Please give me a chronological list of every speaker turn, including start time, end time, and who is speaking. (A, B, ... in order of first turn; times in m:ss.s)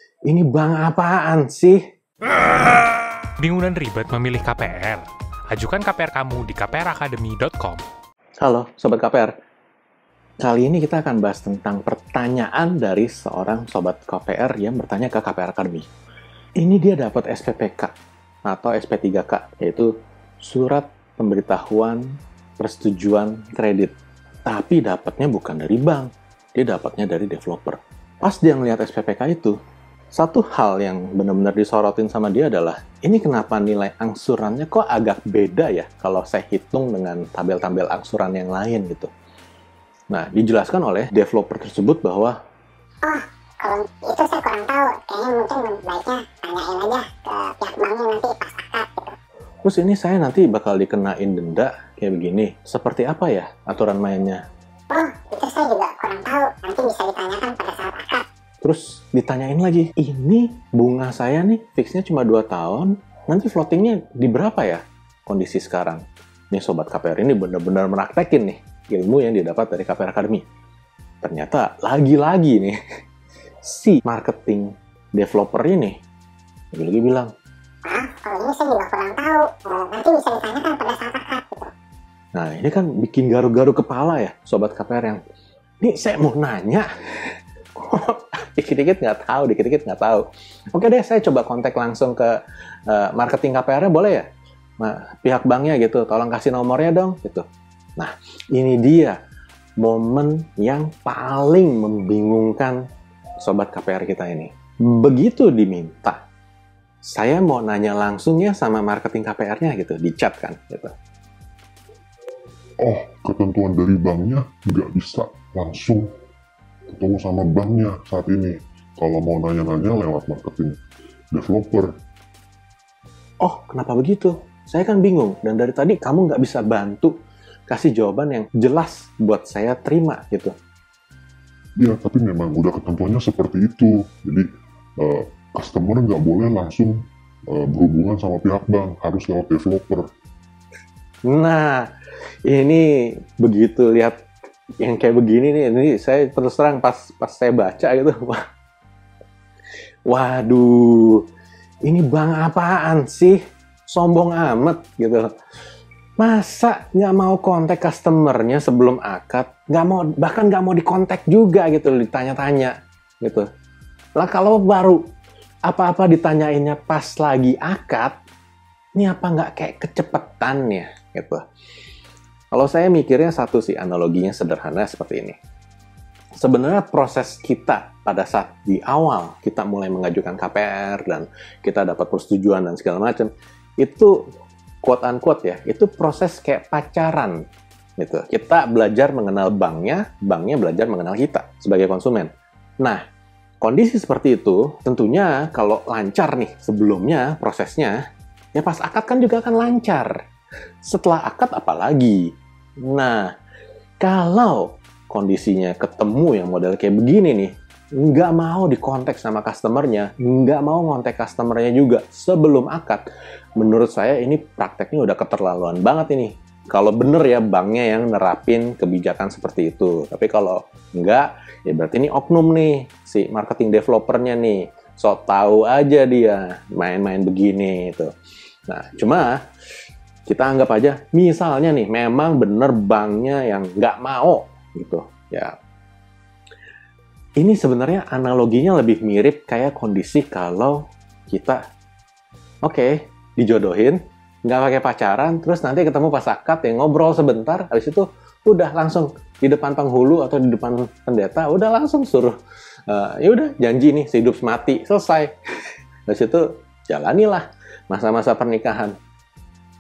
0:00.3-0:01.8 A
0:03.4-0:07.8 B
0:08.4-0:09.3 A
0:10.4-0:15.9 A
0:16.6-0:17.9 A
0:18.5-0:19.9 A
0:20.4-0:22.1 A
0:22.6-0:23.9 A
0:24.5-0:29.6 A
0:30.1-0:39.1 A
0:40.1-0:42.3 A
0:43.0-0:49.1 C
0:49.6-0:54.4 A
0:54.9-0:58.2 C
0:58.6-1:10.4 A
1:11.2-1:12.8 A
1:13.6-1:16.0 A
1:16.7-1:17.3 A
1:17.8-1:21.7 C
1:22.3-1:25.2 A
1:25.8-1:34.2 A
1:34.8-1:37.4 A
1:38.0-1:39.2 A
1:39.8-1:42.8 A
1:43.4-1:46.2 A
1:47.0-1:50.9 A
1:52.8-1:56.1 D
1:56.9-2:00.8 D
2:01.3-2:01.9 D
2:03.4-2:07.1 A
2:07.7-2:10.5 A
2:11.8-2:14.4 D
2:15.0-2:17.0 D
2:17.5-2:20.0 D
2:21.3-2:21.9 A
2:22.4-2:24.2 A
2:24.8-2:28.4 A
2:30.1-2:31.2 A
2:31.8-2:35.3 A
2:36.2-2:43.4 A
2:44.2-2:45.0 A
2:45.7-2:48.1 A
2:48.9-2:51.4 A
2:52.5-2:55.4 A
2:56.4-3:04.2 A
3:04.8-3:07.4 A
3:08.0-3:12.3 A
3:13.6-3:18.0 A
3:18.5-3:20.2 A
3:20.8-3:22.3 A
3:22.8-3:23.3 A
3:24.0-3:33.0 A
3:33.6-3:48.1 A
3:48.7-3:49.4 A
3:50.3-3:55.5 A
3:57.4-4:01.6 A
4:02.6-4:12.4 A
4:12.9-4:15.3 A
4:16.1-4:18.9 A